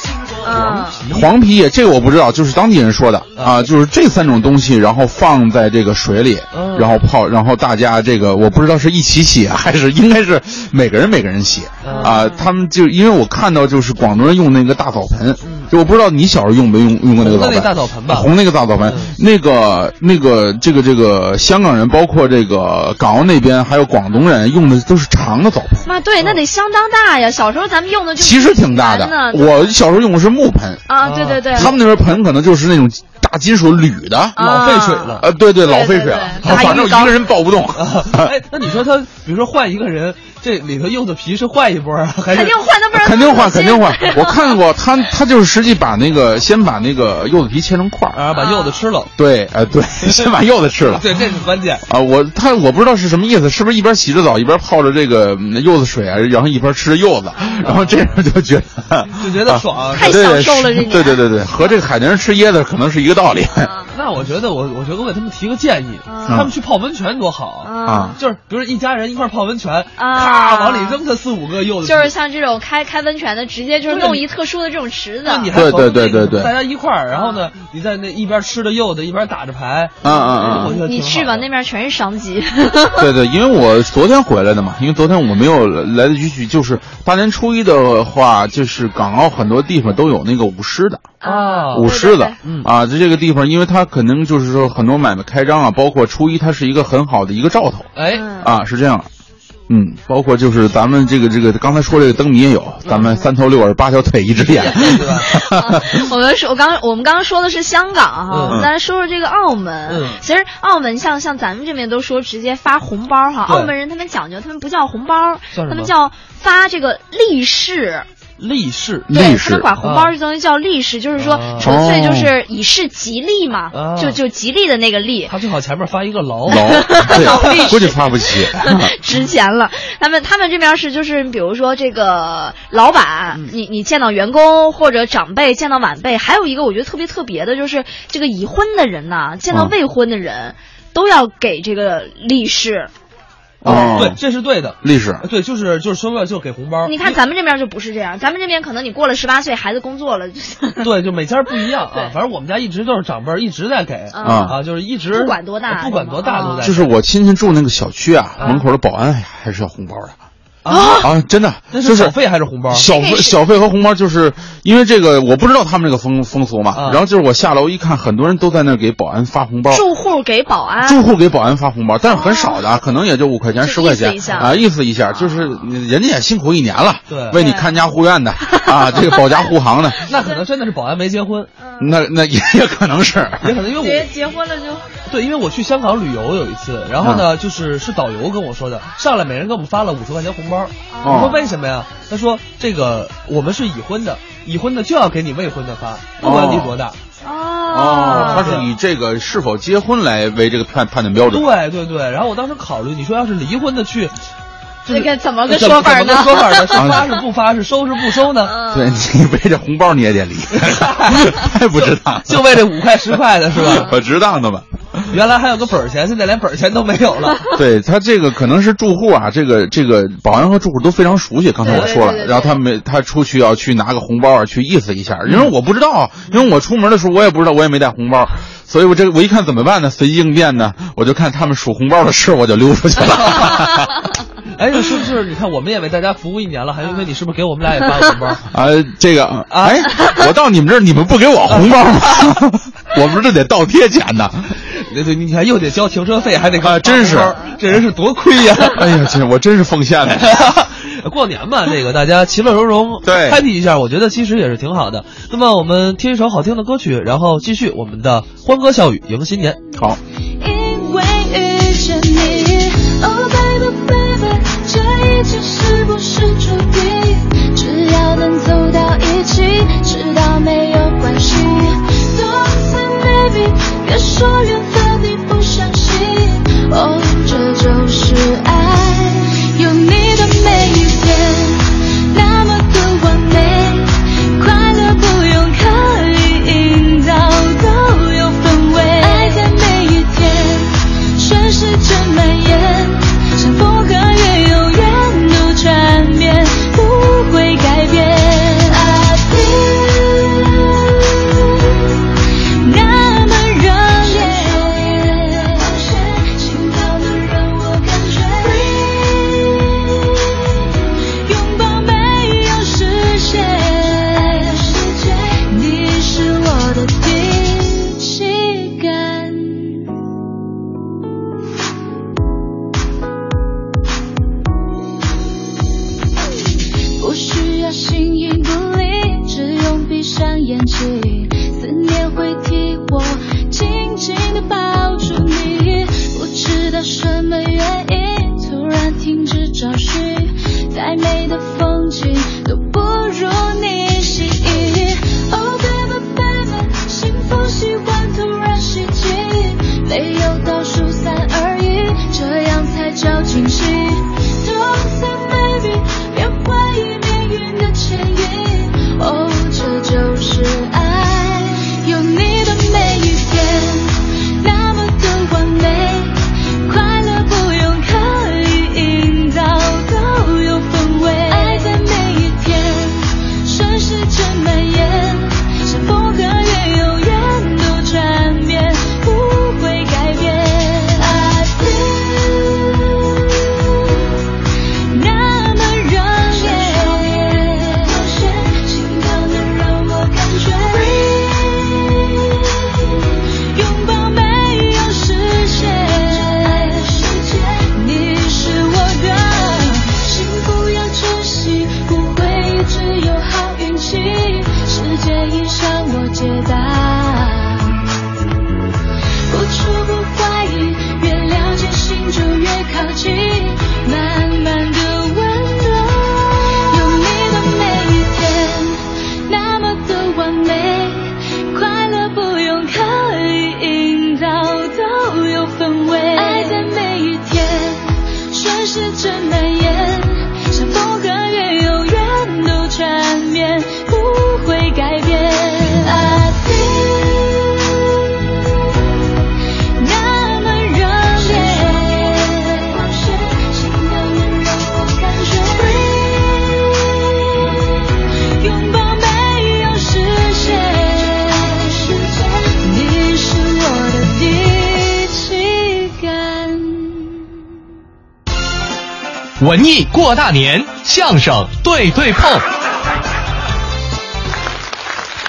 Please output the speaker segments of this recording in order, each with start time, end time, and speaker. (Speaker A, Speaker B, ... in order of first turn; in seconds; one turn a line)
Speaker A: 0.4-1.0
Speaker B: 0.6-1.2
Speaker C: 1.1-25.9
Speaker B: 3.4-3.7
Speaker B: 6.5-7.0
Speaker B: 11.8-12.2
Speaker A: 11.9-12.4
Speaker B: 15.4-15.7
Speaker B: 17.2-18.3
Speaker B: 18.9-19.1
Speaker A: 25.9-29.7
Speaker C: 28.2-30.9
Speaker A: 30.9-31.8
Speaker B: 31.0-31.7
Speaker C: 31.5-34.4
Speaker A: 34.4-37.2
Speaker B: 34.4-35.3
Speaker C: 35.2-38.3
Speaker B: 37.8-42.6
Speaker A: 42.3-44.6
Speaker C: 42.9-48.2
Speaker B: 48.1-49.1
Speaker A: 48.3-48.8
Speaker C: 49.1-51.0
Speaker B: 50.9-51.8
Speaker C: 51.9-63.7
Speaker B: 57.6-57.9
Speaker B: 59.2-60.2
Speaker A: 59.9-61.2
Speaker A: 63.6-63.9
Speaker B: 63.9-72.1
Speaker A: 66.1-66.5
Speaker A: 67.6-68.2
Speaker C: 67.9-68.1
Speaker A: 70.0-71.0
Speaker A: 71.8-75.5
Speaker B: 73.9-74.3
Speaker B: 75.2-81.5
Speaker C: 75.5-76.5
Speaker A: 77.1-77.4
Speaker C: 80.0-80.8
Speaker A: 80.1-83.1
Speaker C: 83.0-91.1
Speaker A: 91.2-92.3
Speaker B: 91.2-92.7
Speaker C: 91.7-99.1
Speaker B: 98.0-98.3
Speaker A: 98.1-98.5
Speaker C: 99.7-106.0
Speaker B: 102.8-103.2
Speaker B: 104.4-105.3
Speaker A: 105.3-118.1
Speaker B: 108.3-108.7
Speaker B: 109.9-110.2
Speaker B: 113.5-113.7
Speaker B: 115.5-115.9
Speaker B: 118.4-119.1
Speaker C: 119.1-119.7
Speaker A: 119.1-125.3
Speaker B: 119.8-120.1
Speaker B: 121.1-121.7
Speaker C: 121.6-122.3
Speaker B: 123.7-124.2
Speaker B: 125.3-127.7
Speaker C: 126.5-128.9
Speaker A: 126.6-142.9
Speaker C: 139.5-139.8
Speaker B: 143.6-147.2
Speaker C: 143.6-144.2
Speaker A: 143.7-144.0
Speaker C: 144.8-145.2
Speaker A: 146.9-150.9
Speaker B: 150.8-156.9
Speaker A: 154.1-154.6
Speaker C: 154.2-154.6
Speaker A: 155.1-156.7
Speaker C: 156.6-160.2
Speaker B: 158.4-158.6
Speaker B: 160.6-161.1
Speaker A: 160.7-161.1
Speaker C: 161.0-162.2
Speaker B: 161.7-162.9
Speaker C: 162.7-169.9
Speaker A: 162.9-163.4
Speaker B: 166.8-167.0
Speaker A: 169.7-171.0
Speaker C: 170.8-180.0
Speaker A: 172.1-172.6
Speaker A: 173.6-174.6
Speaker B: 177.1-177.4
Speaker A: 177.3-177.7
Speaker B: 180.1-181.5
Speaker A: 181.6-181.9
Speaker C: 181.8-183.5
Speaker B: 183.4-184.1
Speaker A: 183.8-184.9
Speaker B: 185.1-197.0
Speaker C: 187.0-187.3
Speaker A: 190.9-191.5
Speaker C: 191.0-191.3
Speaker C: 196.2-196.7
Speaker A: 197.2-198.5
Speaker C: 197.7-201.5
Speaker B: 198.1-198.7
Speaker B: 201.3-204.2
Speaker B: 204.8-208.6
Speaker A: 204.9-206.9
Speaker C: 206.7-207.0
Speaker A: 208.4-208.9
Speaker C: 208.7-212.5
Speaker B: 210.7-211.2
Speaker B: 212.3-213.9
Speaker C: 213.6-215.1
Speaker B: 215.1-217.4
Speaker C: 217.5-233.9
Speaker A: 221.6-222.6
Speaker B: 221.7-222.0
Speaker B: 234.5-238.4
Speaker C: 238.5-244.4
Speaker B: 239.5-239.9
Speaker B: 244.7-248.9
Speaker C: 246.6-247.4
Speaker C: 248.6-250.6
Speaker B: 250.4-259.6
Speaker C: 253.0-253.4
Speaker D: 260.4-300.7
Speaker D: 302.6-310.3
Speaker D: 311.2-319.8
Speaker D: 327.0-382.9
Speaker D: 384.9-392.6
Speaker D: 393.5-407.8
Speaker D: 409.3-437.7
Speaker D: 439.8-447.8
Speaker D: 448.4-457.2
Speaker E: 459.4-462.4